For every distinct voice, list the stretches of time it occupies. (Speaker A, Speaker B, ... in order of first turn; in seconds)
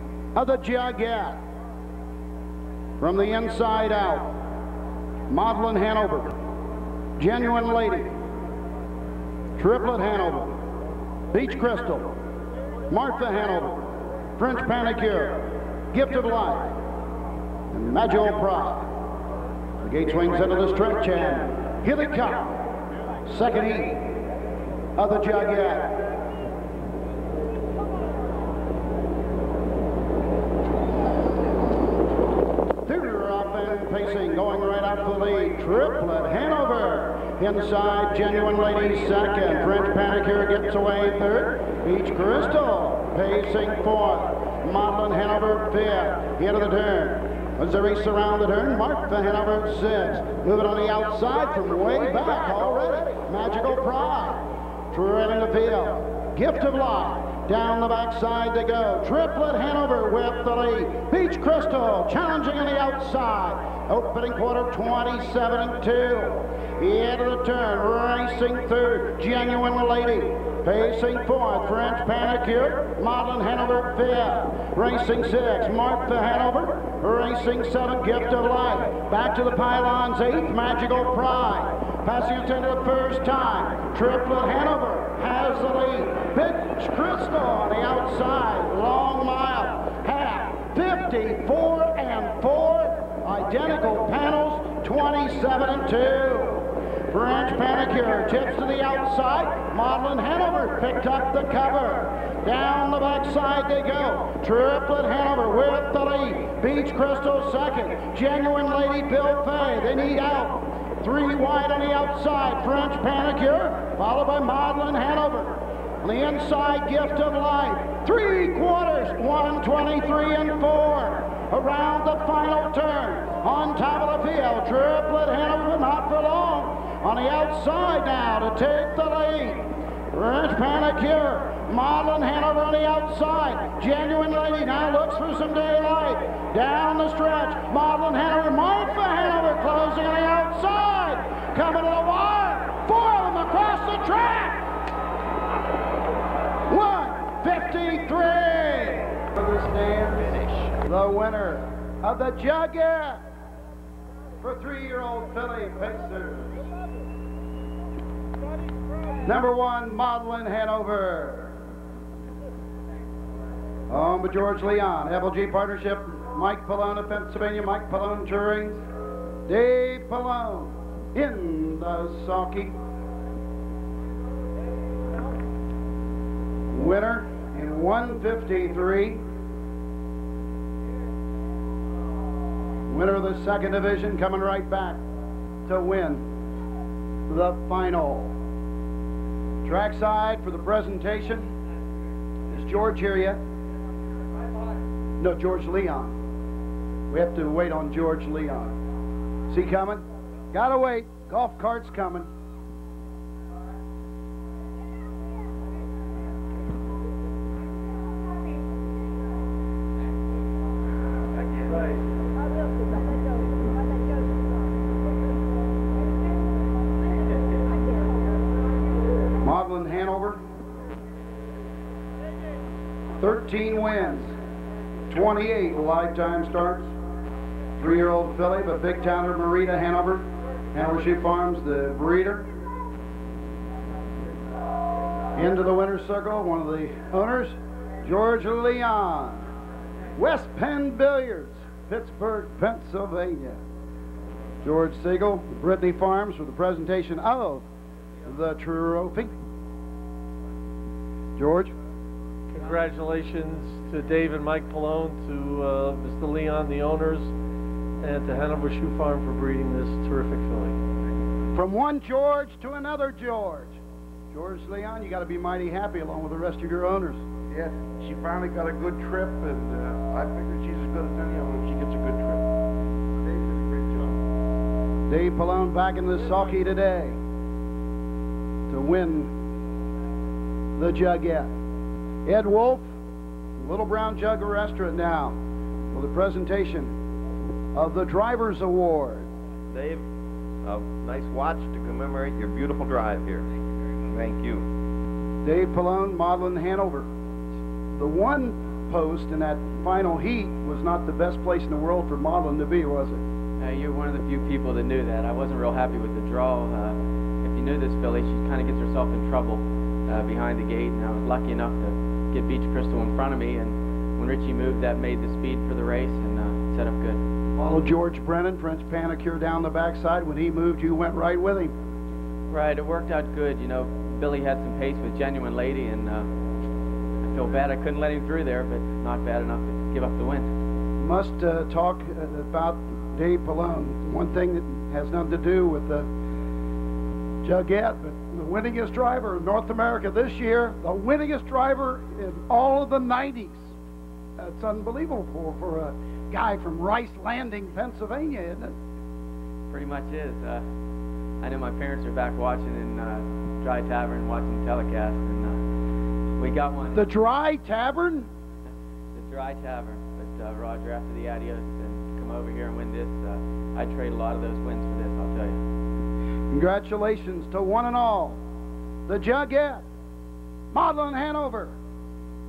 Speaker A: 0.3-1.4, 3.0-4.3, 5.3-6.3, 7.2-8.1, 9.6-10.5, 11.3-12.1, 12.9-13.8, 14.4-16.8, 17.7-18.9, 19.8-22.6, 23.3-24.1, 25.0-26.0, 32.9-144.7, 146.7-153.2, 154.4-156.6, 159.2-161.6, 163.9-168.8, 169.5-172.8, 176.7-179.2, 182.9-185.0, 185.7-186.2, 187.3-188.3, 189.6-191.5, 192.5-193.4, 195.2-196.2, 197.1-198.7, 199.5-202.3, 219.4-220.4, 223.2-224.3, 225.1-226.9, 227.8-232.5, 235.4-239.4, 240.2-243.6, 244.6-247.7, 248.3-249.3, 251.4-251.7, 261.5-263.8, 264.3-267.2, 275.1-277.2, 278.7-279.3, 280.8-281.5, 282.3-282.9, 283.6-285.4, 285.9-286.9, 287.8-289.3, 295.4-297.1, 298.0-303.2, 317.6-321.7, 331.0-336.1, 337.4-343.7, 344.4-348.8, 356.9-358.3, 366.5-368.4, 369.1-369.9, 370.7-371.8
Speaker B: 150.3-150.6, 289.7-290.0, 290.6-293.5, 294.1-294.7
Speaker C: 252.5-257.3, 258.0-260.8
Speaker D: 267.5-272.5, 273.3-274.2
Speaker E: 303.6-317.2, 322.5-326.3, 327.2-330.5, 349.7-350.6, 351.4-355.6, 356.4-357.1, 359.1-365.6